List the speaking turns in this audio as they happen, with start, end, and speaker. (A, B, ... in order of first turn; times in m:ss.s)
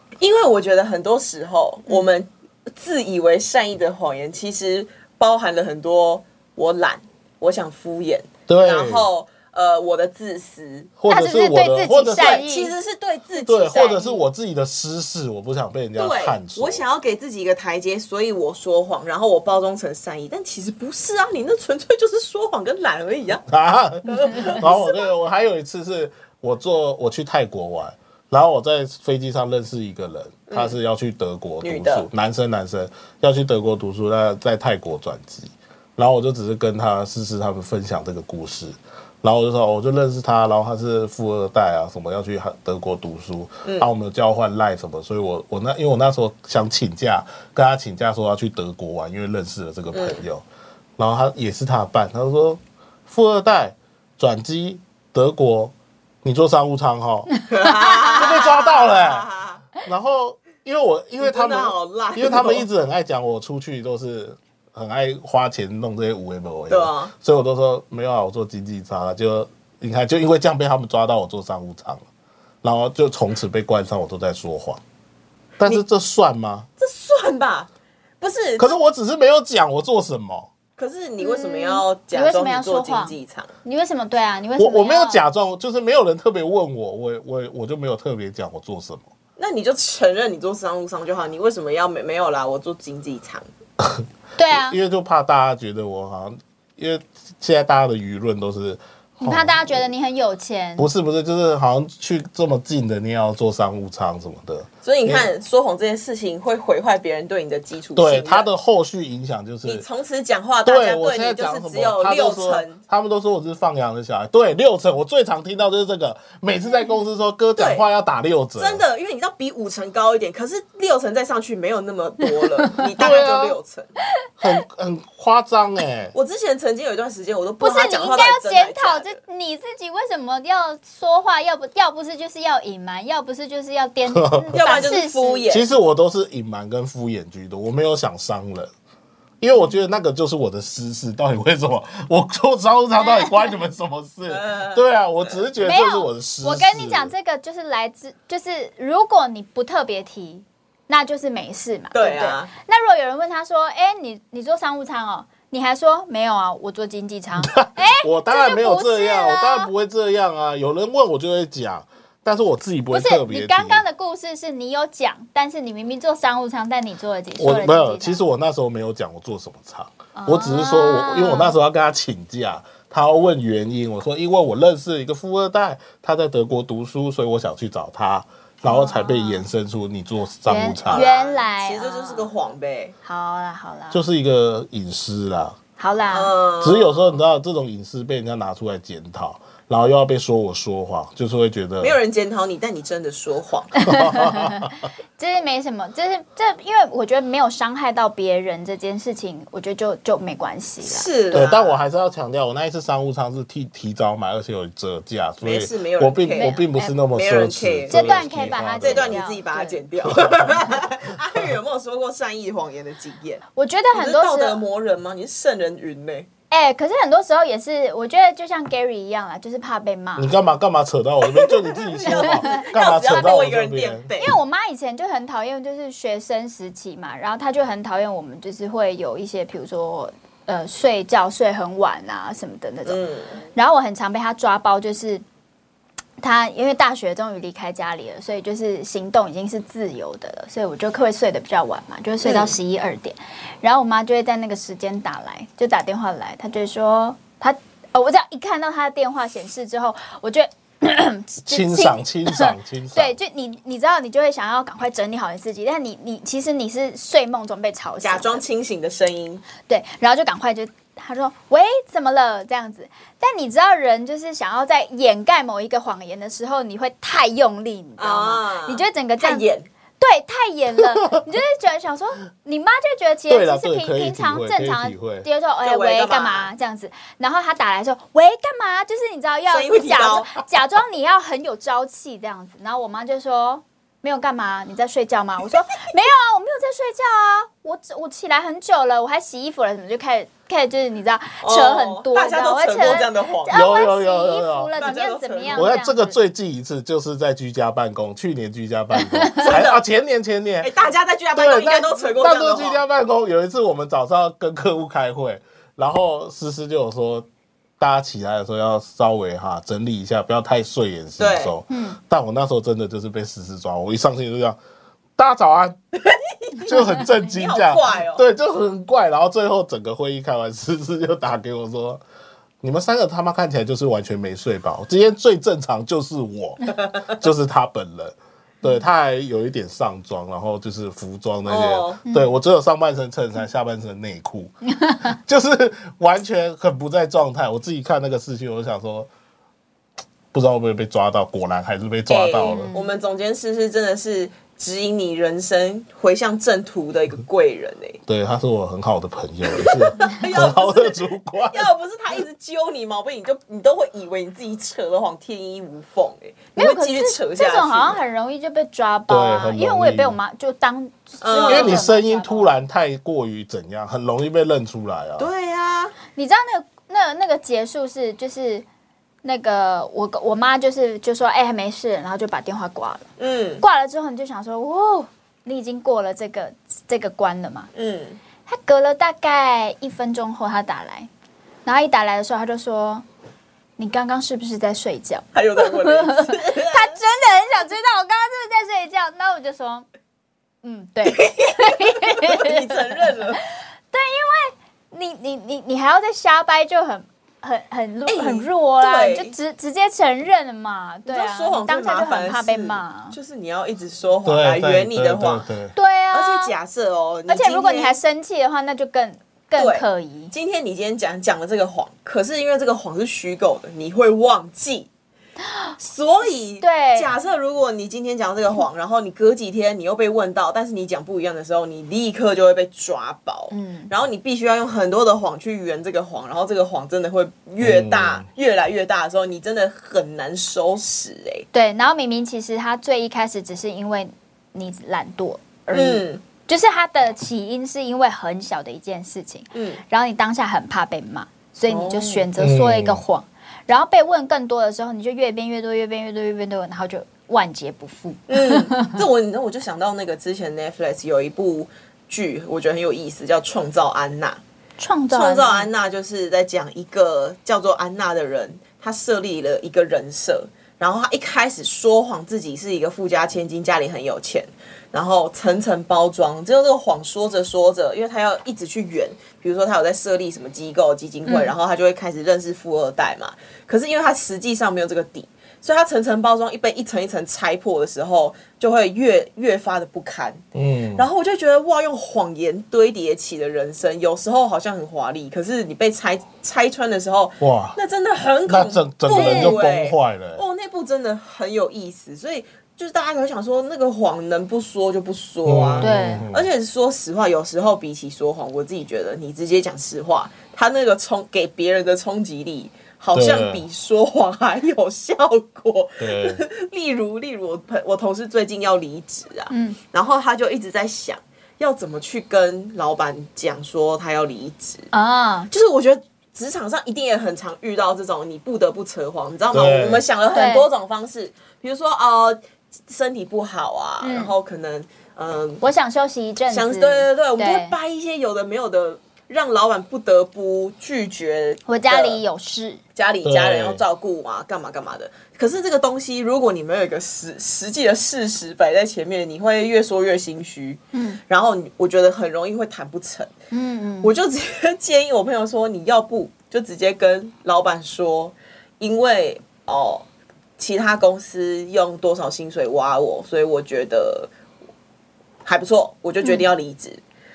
0:00.2-0:10.9 A
0:08.5-0:09.1 B
0:11.0-0:12.4 B
0:11.1-0:12.7 C
0:12.2-0:14.2 A
0:13.4-0:16.8 B
0:13.7-0:14.1 C
0:16.0-0:23.4 A
0:23.5-0:50.4 B
0:24.1-0:25.0 A
0:30.5-0:30.8 A
0:31.6-0:32.1 A
0:43.6-0:43.9 A
0:49.9-0:50.2 A
0:51.0-0:57.3 B
0:57.5-0:59.6 A
0:57.8-0:58.2 C
0:58.2-0:59.3 B
0:59.8-1:12.1 B
1:01.2-1:02.7 A
1:06.7-1:07.1 A
1:12.6-1:14.8 B
1:15.6-1:16.7 B
1:16.8-1:17.7 A
1:18.2-1:18.8 A
1:18.6-1:20.5 B
1:20.8-1:23.5 A
1:21.2-1:25.2 C
1:24.6-1:29.1 B
1:29.4-1:33.4 A
1:33.8-1:39.9 B
1:34.4-1:34.8 C
1:39.2-1:40.9 C
1:40.8-1:45.3 B
1:44.8-1:48.5 A
1:48.0-1:49.8 B
1:49.6-1:52.8 A
1:50.6-1:58.8 B
1:57.6-1:57.8 A
1:58.6-2:03.9 A
2:03.0-2:03.6 B
2:04.4-2:06.1 B
2:06.1-2:09.2 A
2:07.6-2:15.4 C
2:14.1-2:14.9 B
2:14.5-2:15.7 A
2:15.5-2:18.7 B
2:19.4-2:27.1 B
2:23.0-2:23.5 C
2:24.3-2:24.8 A
2:25.6-2:39.7 C
2:31.9-2:32.5 A
2:37.4-2:43.8 B
2:42.9-2:48.2 C
2:47.4-3:01.0 B
2:50.2-2:51.5 C
2:58.6-2:59.4 C
3:00.5-3:02.3 C
3:00.9-3:02.9 A
3:03.0-3:04.0 C
3:03.9-3:05.6 B
3:05.8-3:06.3 C
3:06.1-3:07.1 A
3:06.6-3:12.0 B
3:11.8-3:13.8 A
3:13.8-3:21.1 C
3:13.8-3:14.8 B
3:20.8-3:21.8 A
3:21.3-3:29.2 B
3:25.4-3:36.3 A
3:26.4-3:26.9 C
3:27.9-3:29.8 C
3:30.0-3:31.5 B
3:33.6-3:34.6 C
3:36.5-3:40.3 C
3:40.2-3:44.1 B
3:41.3-3:44.4 A
3:42.1-3:42.6 C
3:44.2-3:53.0 C
3:52.9-3:53.4 A
3:53.5-3:55.2 C
3:56.2-4:18.4 C
4:02.2-4:02.6 A
4:11.5-4:13.1 B
4:18.0-4:19.4 A
4:19.7-4:29.5 C
4:28.0-4:29.7 A
4:30.0-4:56.2 C
4:33.3-4:35.3 B
4:35.6-4:36.5 A
4:39.5-4:40.3 A
4:51.4-4:53.8 A
4:53.5-4:54.8 B
4:54.8-4:55.7 A
4:55.5-5:00.7 B
4:59.0-4:59.4 C
4:59.4-4:59.8 A
5:00.6-5:02.8 A
5:01.4-5:07.3 B
5:07.8-5:14.6 B
5:11.2-5:11.5 A
5:11.7-5:12.0 C
5:15.2-5:15.8 B
5:16.0-5:18.2 A
5:16.6-5:22.0 B
5:22.6-5:39.1 B
5:31.5-5:32.0 A
5:32.1-5:32.4 C
5:34.7-5:35.2 C
5:40.3-5:42.7 B
5:42.1-5:48.0 A
5:42.4-5:42.9 C
5:48.1-5:51.7 B
5:49.5-5:58.0 A
5:56.6-6:02.5 C
5:59.1-6:00.2 B
6:01.2-6:01.8 A
6:01.4-6:05.3 B
6:05.2-6:06.0 A
6:06.2-6:08.6 C
6:09.2-6:13.1 C
6:13.2-6:13.6 A
6:13.6-6:17.7 C
6:17.8-6:18.2 A
6:18.5-6:21.1 C
6:21.7-6:23.0 C
6:23.8-6:29.9 C
6:25.4-6:27.0 A
6:30.6-6:32.7 C
6:31.0-6:33.4 A
6:33.9-6:43.2 C
6:38.1-6:39.3 A
6:41.1-6:45.5 A
6:44.2-6:45.8 B
6:45.8-6:46.6 C
6:46.1-6:48.0 A
6:47.3-6:50.3 C
6:49.6-6:54.9 A
6:55.8-7:11.5 A
6:56.6-6:57.1 C
7:03.5-7:03.9 C
7:07.6-7:08.3 B
7:11.5-7:29.0 C
7:15.7-7:16.2 A
7:19.5-7:19.8 A
7:21.7-7:22.3 A
7:22.4-7:23.0 B
7:28.3-7:34.4 A
7:34.8-7:35.7 C
7:35.1-8:00.4 A
7:51.3-7:51.5 C
8:00.6-8:01.1 B
8:01.0-8:34.9 A
8:07.4-8:07.8 B
8:08.5-8:10.4 B
8:09.1-8:09.6 C
8:15.4-8:16.5 B
8:15.8-8:16.2 C
8:23.1-8:23.6 B
8:26.0-8:26.4 B
8:29.5-8:29.8 C
8:34.9-8:35.5 C
8:35.5-8:45.6 A
8:39.5-8:40.0 B
8:40.3-8:40.7 C
8:44.0-8:44.3 C
8:45.6-8:47.8 C
8:46.5-8:52.2 A
8:51.7-8:52.8 C
8:53.0-9:03.3 A
8:53.2-8:53.8 B
9:00.9-9:01.2 C
9:03.5-9:04.1 C
9:04.0-9:10.0 A
9:10.6-9:14.3 A
9:15.4-9:17.0 A